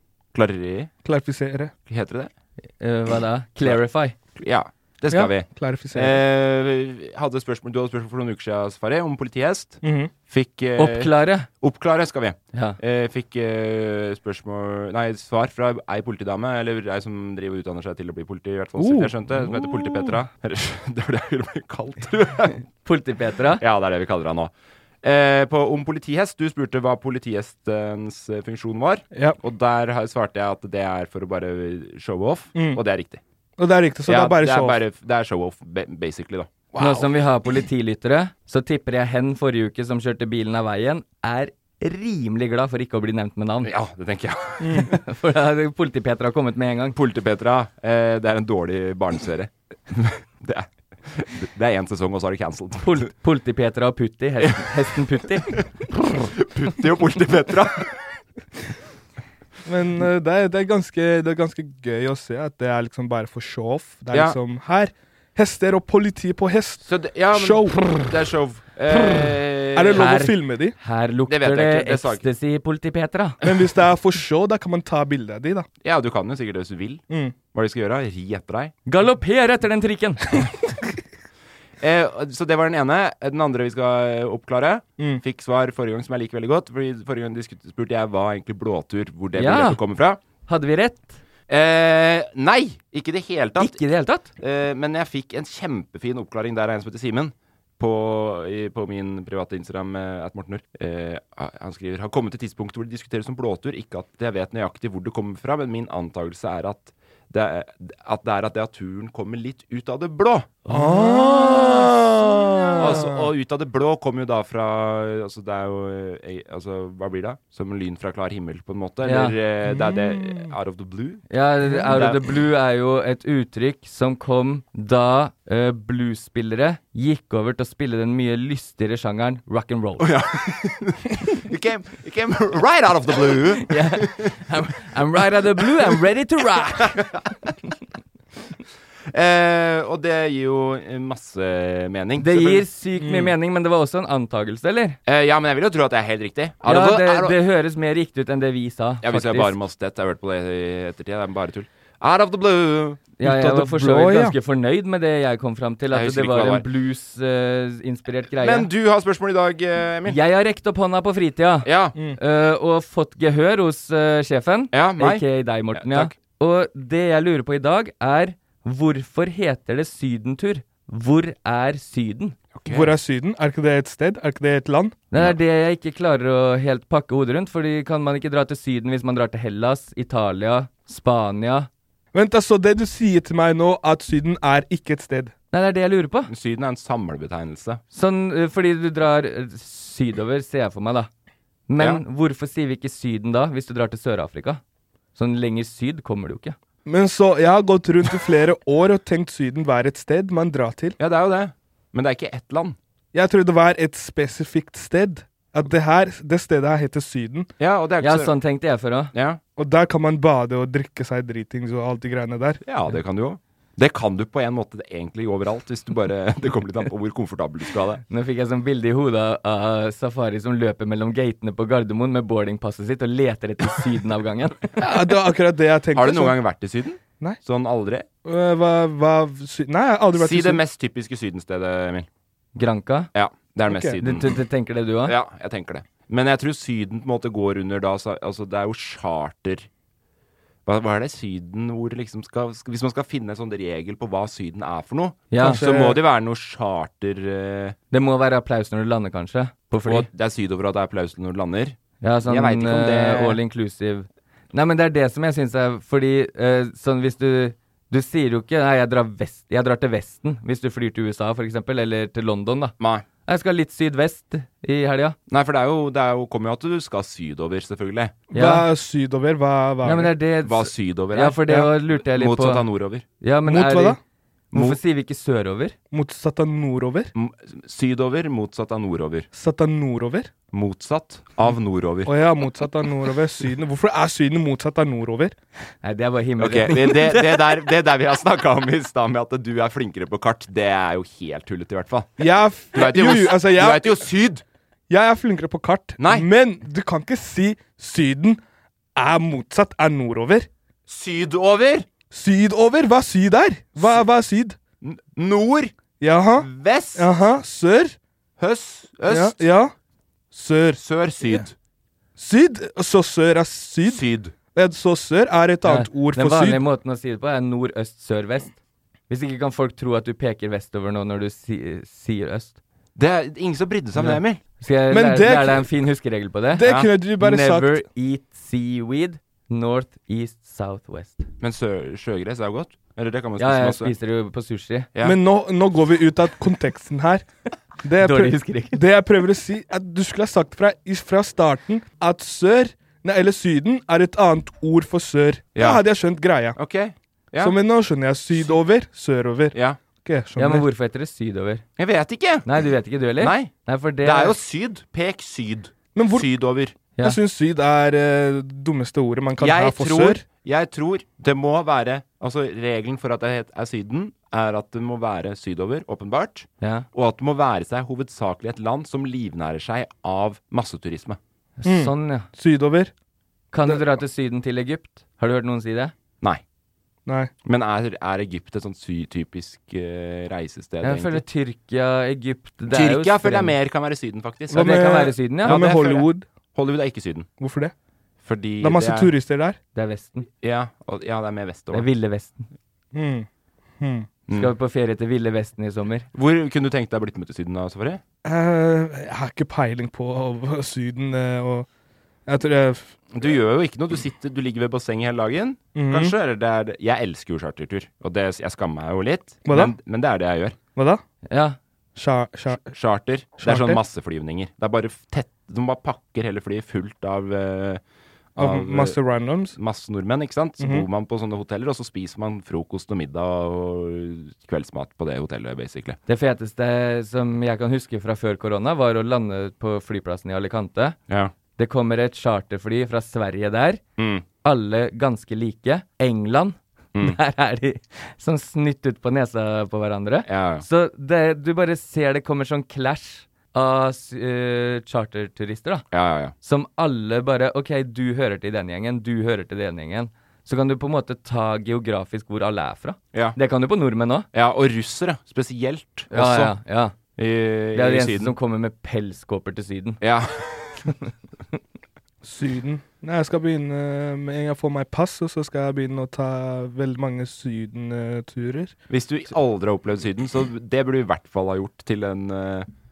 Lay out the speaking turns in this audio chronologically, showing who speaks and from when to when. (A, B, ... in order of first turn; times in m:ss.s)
0:00.3-0:00.9 A
0:01.0-0:01.7 B
0:01.9-0:02.3 A
0:02.8-0:04.1 C
0:04.3-0:22.6 A
0:05.1-0:06.2 B
0:09.8-0:10.1 B
0:10.8-0:11.5 C
0:18.8-0:19.5 B
0:22.8-0:23.6 C
0:23.6-0:24.5 A
0:25.0-0:33.2 A
0:32.5-0:32.8 B
0:33.6-0:34.8 B
0:34.0-0:36.5 A
0:36.7-0:37.1 B
0:36.8-0:43.7 C
0:43.6-0:44.9 A
0:44.6-0:44.9 B
0:44.9-0:47.0 C
0:46.9-0:53.1 A
0:52.8-0:55.6 C
0:54.4-0:54.8 A
0:55.5-0:58.0 A
0:59.6-1:08.1 B
1:04.1-1:04.4 A
1:06.8-1:10.1 A
1:08.9-1:10.7 B
1:09.9-1:13.4 C
1:11.3-1:12.2 A
1:13.4-1:15.7 B
1:15.8-1:18.7 A
1:17.1-1:17.3 B
1:18.8-1:20.4 C
1:21.8-1:30.2 A
1:29.3-1:29.8 C
1:30.4-1:31.2 C
1:31.5-1:33.8 A
1:33.6-1:34.3 C
1:34.4-1:50.7 A
1:50.7-1:51.6 C
1:50.7-1:53.3 B
1:51.3-1:52.0 A
1:52.7-2:01.3 A
1:59.0-1:59.3 C
1:59.6-2:00.5 B
2:01.3-2:10.1 C
2:01.6-2:01.9 B
2:01.9-2:02.2 A
2:10.0-2:14.3 A
2:13.6-2:17.0 C
2:16.8-2:17.2 A
2:19.1-2:22.6 A
2:22.2-2:25.0 C
2:23.0-2:23.3 B
2:25.0-2:27.4 A
2:26.6-2:29.5 C
2:29.0-2:33.1 A
2:33.2-2:38.7 C
2:33.2-2:34.3 B
2:35.9-2:36.6 A
2:38.4-2:40.2 A
2:40.1-2:52.4 C
2:41.6-2:41.9 A
2:44.7-2:46.1 A
2:52.5-2:53.0 A
2:52.7-2:55.0 B
2:55.1-3:01.7 C
3:02.1-3:05.3 B
3:05.5-3:06.3 C
3:06.3-3:07.8 A
3:07.9-3:11.1 C
3:11.7-3:14.6 C
3:15.2-3:16.6 C
3:16.8-3:21.0 B
3:21.0-3:22.8 A
3:23.1-3:27.5 B
3:27.6-3:28.3 A
3:28.0-3:29.1 C
3:29.1-3:29.4 A
3:29.6-3:32.6 B
3:32.6-3:38.0 A
3:38.1-3:44.7 C
3:44.8-3:46.4 B
3:45.9-3:48.0 A
3:48.2-3:50.6 B
3:50.1-3:52.1 A
3:52.5-3:53.1 C
3:53.1-3:54.3 A
3:53.7-3:54.0 B
3:54.0-3:55.1 C
3:55.0-3:59.7 A
4:00.6-4:07.8 A
4:05.3-4:05.6 C
4:05.4-4:06.0 B
4:07.9-4:10.1 C
4:09.8-4:13.4 A
4:12.0-4:22.7 C
4:22.8-4:23.0 A
4:23.2-4:25.2 C
4:25.3-4:28.2 A
4:28.3-4:30.1 B
4:28.3-4:28.6 C
4:29.8-4:32.6 C
4:30.4-4:33.0 A
4:33.2-4:34.0 C
4:33.4-4:34.0 B
4:34.5-4:35.8 C
4:35.9-4:37.1 B
4:37.1-4:39.3 A
4:39.3-4:40.3 B
4:40.5-4:42.1 A
4:42.0-4:45.3 B
4:45.8-4:47.6 C
4:46.4-4:52.2 A
4:52.2-4:54.0 B
4:52.7-4:54.4 A
4:54.9-4:58.4 B
4:56.0-4:56.3 A
4:58.9-5:00.5 B
5:00.9-5:01.9 A
5:02.1-5:04.6 B
5:03.8-5:04.0 A
5:04.8-5:05.7 A
5:06.0-5:08.0 B
5:06.4-5:07.1 A
5:08.4-5:09.4 A
5:09.1-5:09.7 B
5:10.3-5:11.4 B
5:10.8-5:11.5 A
5:12.2-5:14.0 B
5:13.8-5:14.3 A
5:14.5-5:16.6 B
5:15.6-5:18.6 C
5:19.1-5:22.6 C
5:23.0-5:24.4 A
5:23.9-5:26.7 C
5:24.9-5:25.7 B
5:26.5-5:27.8 B
5:27.2-5:31.3 C
5:31.4-5:33.9 A
5:33.4-5:34.9 C
5:35.0-5:37.2 B
5:37.8-5:46.6 B
5:38.0-5:38.8 C
5:45.5-5:45.8 A
5:46.6-5:47.6 A
5:47.4-5:50.6 B
5:49.5-5:49.8 A
5:50.4-5:51.6 C
5:51.8-5:52.4 A
5:52.4-5:54.3 C
5:53.2-5:53.5 A
5:54.0-5:56.8 A
5:55.9-5:56.3 B
5:57.0-6:00.2 B
5:59.4-6:11.2 A
6:06.6-6:06.8 C
6:11.6-6:12.3 C
6:11.6-6:12.9 B
6:13.5-6:15.9 C
6:17.0-6:17.3 B
6:17.4-6:21.2 A
6:20.8-6:23.5 C
6:22.7-6:24.8 A
6:24.5-6:26.2 B
6:24.5-6:25.6 C
6:25.4-6:27.3 A
6:27.4-6:27.7 B
6:28.2-6:29.1 A
6:28.6-6:29.6 B
6:29.7-6:30.3 C
6:30.4-6:31.8 A
6:31.7-6:32.5 C
6:32.9-6:33.3 B
6:33.8-6:34.1 B
6:34.3-6:34.5 A
6:34.3-6:36.1 C
6:36.1-6:38.0 A
6:38.2-6:41.7 B
6:42.3-6:43.3 B
6:43.1-6:50.5 A
6:45.7-6:46.1 B
6:49.5-6:49.7 B
6:50.8-6:51.0 B
6:51.3-6:51.6 C
6:52.0-6:52.7 B
6:52.5-6:57.8 A
6:53.4-6:53.8 B
6:58.4-6:59.0 A
6:58.4-6:59.6 B
6:59.5-7:06.0 A
7:00.6-7:00.8 B
7:06.1-7:11.0 C
7:11.6-7:13.8 C
7:14.0-7:14.2 A
7:14.4-7:25.9 C
7:20.3-7:20.6 A
7:25.9-7:26.3 A
7:26.4-7:34.3 C
7:34.3-7:36.5 A
7:36.1-7:37.0 C
7:37.2-7:38.3 A
7:37.7-7:40.0 C
7:40.0-7:40.8 A
7:42.2-7:48.7 B
7:48.9-7:52.7 A